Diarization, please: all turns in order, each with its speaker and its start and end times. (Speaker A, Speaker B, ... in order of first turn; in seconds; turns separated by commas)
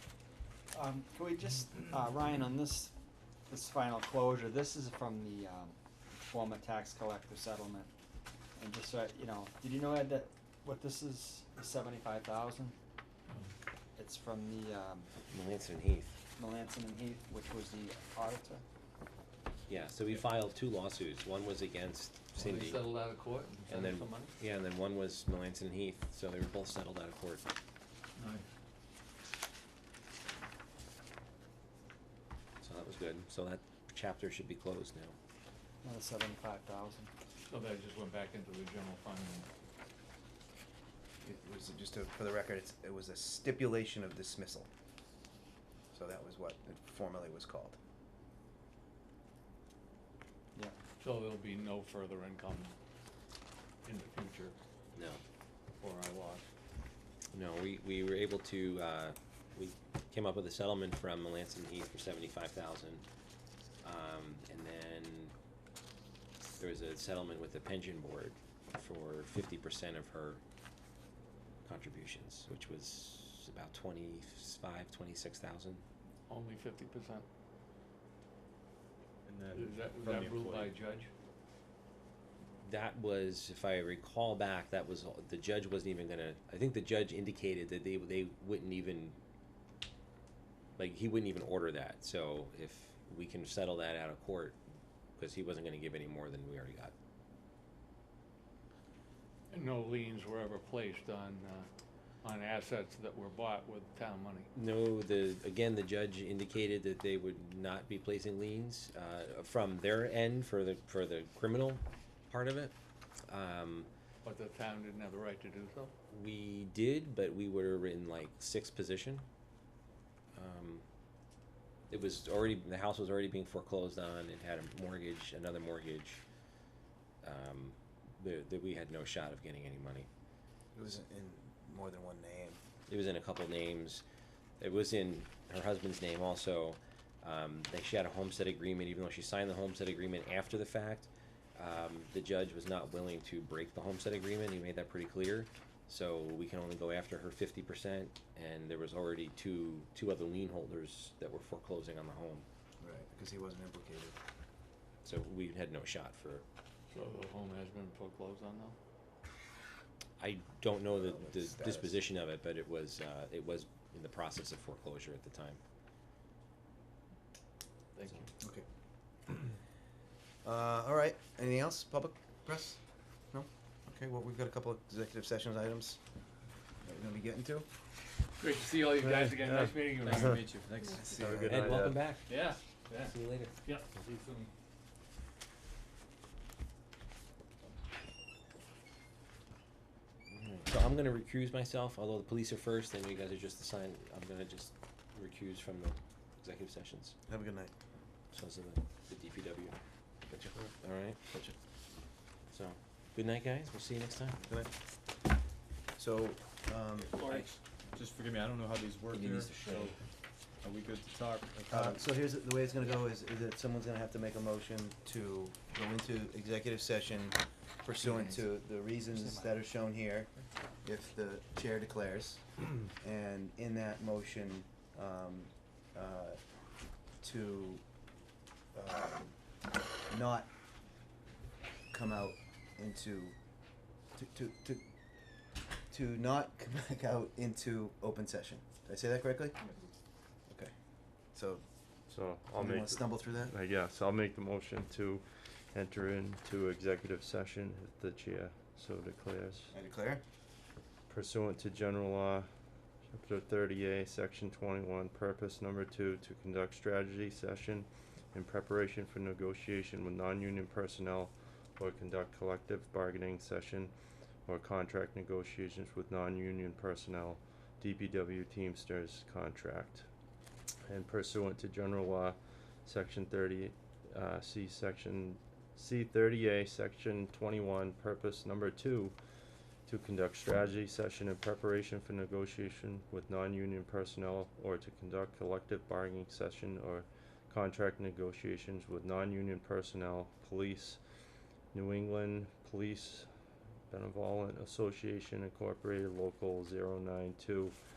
Speaker A: 0.7-2.9, Speaker A: 3.5-7.9, Speaker A: 8.6-12.8, Speaker A: 14.0-15.1, Speaker B: 15.3-16.2, Speaker A: 16.4-18.6, Speaker B: 19.7-22.9, Speaker C: 22.4-24.3, Speaker B: 23.7-27.5, Speaker C: 28.2-28.4, Speaker B: 32.6-35.1, Speaker A: 35.8-37.1, Speaker C: 37.5-39.5, Speaker D: 41.2-44.7, Speaker D: 45.9-47.8, Speaker C: 51.0-52.8, Speaker C: 53.9-54.6, Speaker B: 55.0-55.2, Speaker C: 55.8-56.5, Speaker B: 57.3-63.0, Speaker B: 63.8-65.3, Speaker B: 66.6-70.4, Speaker B: 71.7-75.8, Speaker C: 76.3-77.3, Speaker E: 79.2-80.8, Speaker C: 79.5-81.1, Speaker B: 82.6-89.2, Speaker B: 90.8-94.6, Speaker B: 95.2-96.9, Speaker C: 99.5-101.7, Speaker C: 102.2-104.5, Speaker B: 104.5-112.7, Speaker B: 113.3-113.9, Speaker C: 114.2-115.9, Speaker B: 116.1-119.2, Speaker B: 120.3-120.8, Speaker B: 121.9-126.2, Speaker B: 127.2-130.1, Speaker D: 130.7-132.6, Speaker B: 132.9-134.0, Speaker B: 134.6-152.4, Speaker D: 152.8-154.2, Speaker B: 155.0-156.4, Speaker C: 156.9-158.8, Speaker B: 160.2-165.6, Speaker D: 160.9-162.0, Speaker C: 167.9-168.3, Speaker D: 168.4-168.7, Speaker D: 170.4-172.8, Speaker D: 173.3-176.0, Speaker D: 176.8-177.7, Speaker C: 178.4-181.0, Speaker F: 179.1-179.7, Speaker E: 179.9-181.8, Speaker D: 181.0-181.5, Speaker F: 181.2-182.0, Speaker B: 181.4-183.5, Speaker C: 182.3-184.5, Speaker B: 190.3-197.2, Speaker D: 197.3-197.7, Speaker B: 198.3-199.8, Speaker B: 200.3-201.6, Speaker B: 202.5-204.4, Speaker D: 204.5-204.8, Speaker D: 206.0-207.2, Speaker C: 207.1-207.4, Speaker B: 207.2-207.5, Speaker E: 207.3-210.0, Speaker B: 209.1-209.9, Speaker E: 210.6-212.0, Speaker D: 211.7-220.3, Speaker A: 219.1-219.5, Speaker D: 220.8-222.4, Speaker D: 223.0-226.4, Speaker D: 227.2-227.8, Speaker D: 228.7-229.3, Speaker D: 230.1-230.5, Speaker D: 231.9-233.3, Speaker D: 234.2-234.8, Speaker D: 235.9-239.6, Speaker D: 241.3-241.6, Speaker F: 242.1-249.7, Speaker D: 242.5-243.5, Speaker D: 249.7-250.2, Speaker F: 251.1-252.5, Speaker F: 253.1-263.9, Speaker F: 264.5-270.1, Speaker F: 270.9-279.2, Speaker F: 279.9-291.0, Speaker F: 291.7-293.3, Speaker F: 293.9-297.8